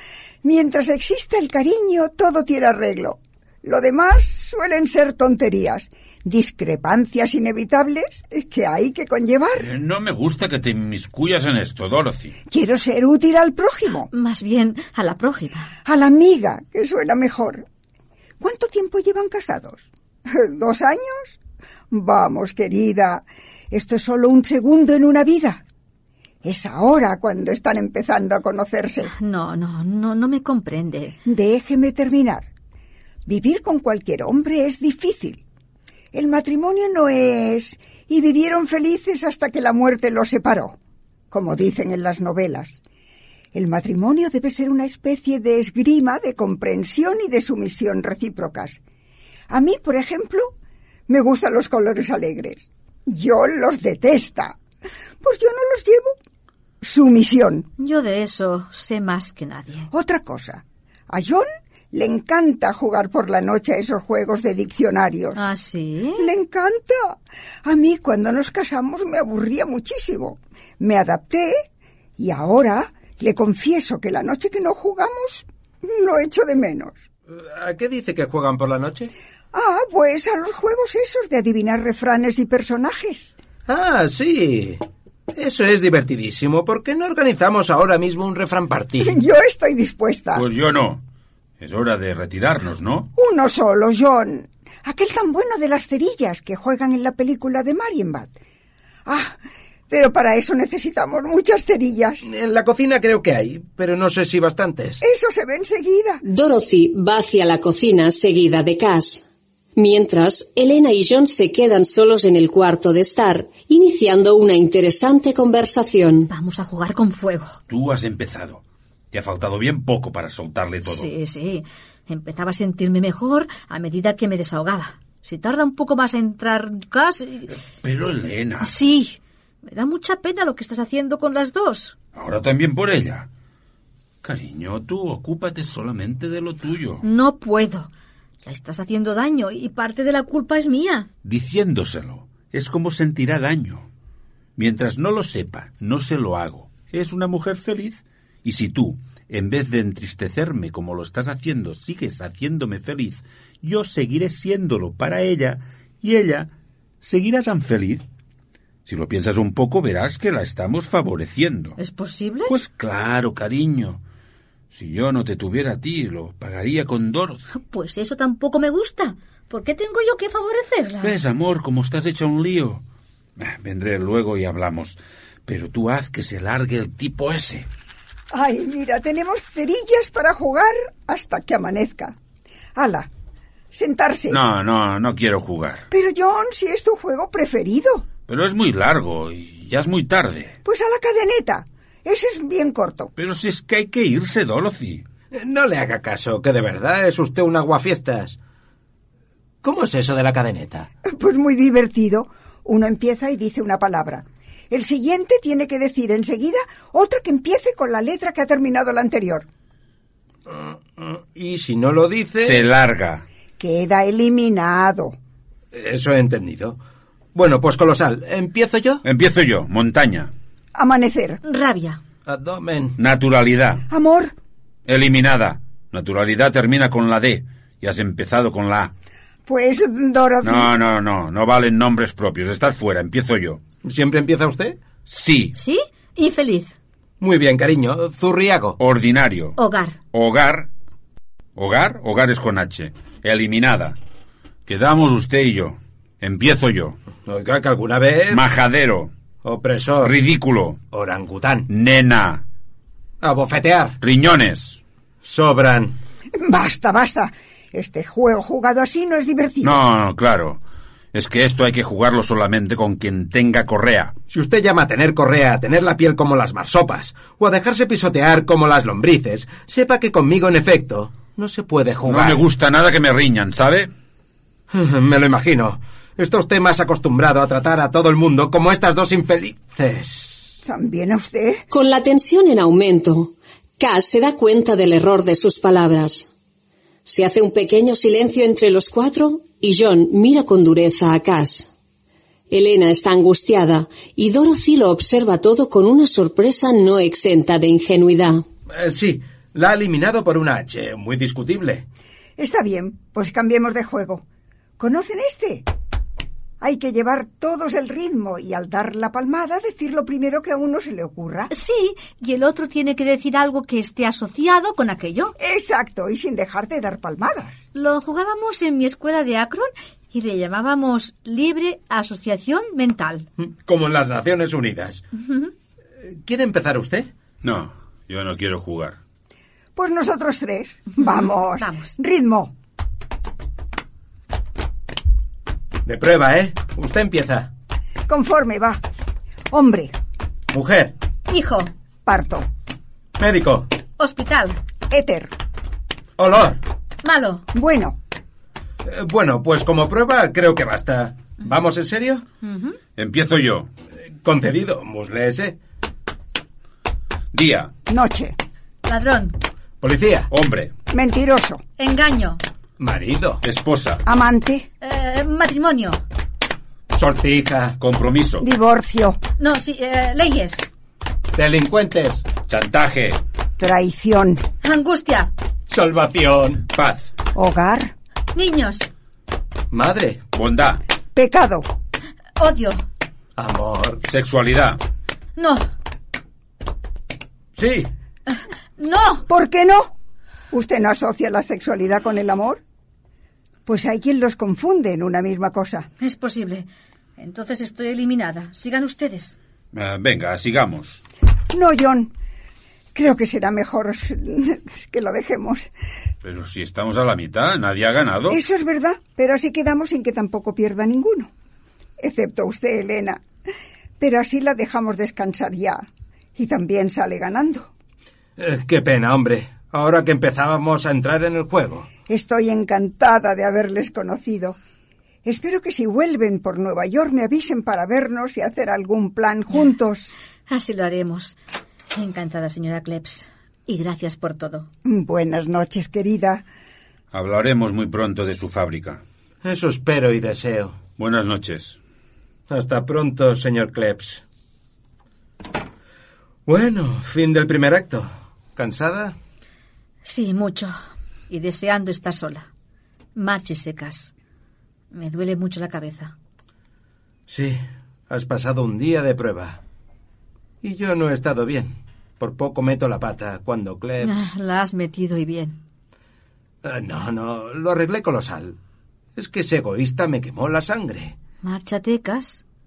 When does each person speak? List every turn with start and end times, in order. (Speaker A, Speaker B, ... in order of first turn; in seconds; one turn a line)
Speaker A: 0.4-9.7
Speaker B: 9.5-12.3
Speaker A: 12.5-14.1
Speaker C: 14.1-15.7
Speaker A: 15.8-17.6
Speaker A: 18.4-21.4
Speaker A: 21.9-25.6
Speaker A: 26.4-29.1
Speaker C: 29.1-31.2
Speaker A: 31.2-32.5
Speaker A: 33.3-35.4
Speaker A: 36.1-40.8
Speaker A: 41.3-42.8
Speaker A: 43.5-48.8
Speaker A: 49.5-50.5
Speaker A: 51.1-54.6
Speaker A: 55.2-56.1
Speaker A: 56.8-57.7
Speaker C: 57.8-59.9
Speaker A: 59.9-65.4
Speaker C: 65.3-66.3
Speaker A: 66.2-71.6
Speaker A: 72.2-77.0
Speaker D: 77.3-79.1
Speaker A: 79.5-83.3
Speaker D: 83.7-84.8
Speaker D: 85.3-89.2
Speaker A: 89.0-90.4
Speaker B: 90.3-91.0
Speaker B: 91.6-93.1
Speaker A: 93.2-98.3
Speaker A: 99.0-99.4
Speaker A: 99.9-102.2
Speaker D: 102.2-105.0
Speaker A: 105.0-106.2
Speaker E: 106.2-109.2
Speaker E: 109.8-116.3
Speaker C: 116.3-117.6
Speaker B: 117.7-121.1
Speaker C: 120.8-127.5
Speaker B: 127.8-128.7
Speaker C: 128.6-131.9
Speaker B: 132.1-133.3
Speaker B: 134.2-137.1
Speaker C: 137.0-137.9
Speaker C: 138.4-141.1
Speaker B: 141.2-143.9
Speaker B: 144.6-158.1
Speaker B: 158.8-161.8
Speaker C: 161.8-162.6
Speaker B: 162.5-164.0
Speaker B: 164.7-167.4
Speaker C: 167.5-171.2
Speaker B: 171.0-172.8
Speaker B: 173.4-177.7
Speaker A: 178.3-182.2
Speaker A: 182.7-183.1
Speaker A: 183.7-184.4
Speaker B: 184.3-185.8
Speaker A: 185.9-188.1
Speaker B: 188.3-190.6
Speaker A: 190.6-193.1
Speaker B: 193.2-195.1
Speaker D: 195.3-198.4
Speaker D: 199.6-200.9
Speaker A: 201.1-209.4
Speaker D: 210.5-212.6
Speaker B: 212.4-213.2
Speaker A: 213.6-215.1
Speaker D: 215.7-216.8
Speaker D: 217.3-219.0
Speaker B: 219.0-220.3
Speaker A: 220.7-221.4
Speaker C: 221.4-222.0
Speaker D: 222.3-223.0
Speaker B: 223.0-223.8
Speaker A: 223.9-224.3
Speaker B: 224.9-228.9
Speaker A: 229.4-230.7
Speaker B: 230.4-233.6
Speaker D: 233.8-234.8
Speaker B: 235.1-235.6
Speaker C: 235.6-236.7
Speaker D: 237.2-238.8
Speaker B: 238.8-239.6
Speaker C: 239.6-240.0
Speaker B: 240.1-240.7
Speaker B: 241.6-244.0
Speaker B: 244.7-247.0
Speaker D: 247.2-248.4
Speaker B: 248.3-249.1
Speaker D: 249.4-250.1
Speaker B: 250.0-250.8
Speaker D: 250.9-251.7
Speaker B: 251.7-252.4
Speaker D: 253.2-254.0
Speaker B: 254.0-254.8
Speaker D: 255.2-256.0
Speaker A: 256.4-259.8
Speaker B: 259.6-260.6
Speaker B: 261.1-264.1
Speaker D: 264.3-272.4
Speaker B: 272.1-273.9
Speaker D: 274.7-280.5
Speaker A: 280.6-281.6
Speaker E: 281.7-286.3
Speaker E: 287.1-291.7
Speaker E: 292.5-298.4
Speaker D: 298.7-301.9
Speaker A: 302.4-304.2
Speaker A: 304.8-305.6
Speaker A: 306.6-311.5
Speaker C: 311.5-315.4
Speaker A: 315.4-317.6
Speaker C: 317.7-323.3
Speaker D: 323.4-325.0
Speaker D: 326.0-327.1
Speaker B: 327.4-329.0
Speaker A: 329.7-332.5
Speaker C: 331.0-331.9
Speaker D: 335.9-337.5
Speaker A: 338.1-338.8
Speaker A: 339.5-339.9
Speaker D: 340.5-340.9
Speaker C: 341.3-341.7
Speaker A: 342.1-342.5
Speaker D: 343.2-343.7
Speaker C: 344.0-344.6
Speaker A: 344.9-345.3
Speaker D: 346.2-346.6
Speaker C: 347.0-347.4
Speaker A: 347.5-348.0
Speaker D: 348.9-352.3
Speaker C: 352.4-352.8
Speaker B: 353.0-353.7
Speaker D: 354.2-355.6
Speaker B: 357.3-357.7
Speaker A: 357.9-358.4
Speaker C: 358.9-359.4
Speaker D: 359.8-360.3
Speaker B: 360.3-360.7
Speaker A: 360.9-361.6
Speaker C: 361.8-362.4
Speaker D: 362.8-363.4
Speaker B: 363.4-364.0
Speaker A: 364.1-364.7
Speaker C: 364.8-366.0
Speaker D: 366.9-367.8
Speaker B: 367.8-368.5
Speaker A: 368.4-369.2
Speaker C: 369.4-370.6
Speaker D: 371.3-372.3
Speaker B: 372.5-373.2
Speaker A: 373.6-374.4
Speaker C: 374.6-375.3
Speaker D: 375.7-376.7
Speaker B: 376.7-377.1
Speaker A: 377.3-377.9
Speaker C: 378.3-378.9
Speaker D: 379.7-380.2
Speaker B: 380.3-380.8
Speaker A: 381.1-381.6
Speaker C: 382.4-382.8
Speaker D: 383.4-384.0
Speaker B: 384.1-384.8
Speaker C: 385.4-385.7
Speaker D: 387.6-387.9
Speaker C: 388.3-389.3
Speaker A: 389.3-389.9
Speaker A: 390.5-392.6
Speaker A: 393.6-395.9
Speaker C: 396.0-399.4
Speaker B: 399.7-401.0
Speaker A: 401.5-402.1
Speaker A: 402.9-405.7
Speaker B: 406.2-408.4
Speaker A: 408.3-411.3
Speaker A: 412.0-413.2
Speaker A: 414.0-415.9
Speaker A: 416.4-417.7
Speaker D: 418.4-421.9
Speaker A: 422.1-424.6
Speaker A: 425.2-430.1
Speaker C: 430.5-431.4
Speaker C: 431.9-434.7
Speaker A: 434.9-436.4
Speaker B: 437.1-439.0
Speaker D: 439.4-440.8
Speaker B: 441.0-441.8
Speaker D: 442.5-444.2
Speaker D: 446.4-449.1
Speaker C: 450.1-450.7
Speaker C: 451.3-452.5
Speaker C: 453.1-454.1
Speaker C: 454.9-456.1
Speaker D: 457.3-459.6
Speaker D: 460.6-464.3
Speaker C: 464.0-465.6
Speaker D: 466.6-468.6
Speaker D: 469.1-471.1
Speaker C: 471.4-472.4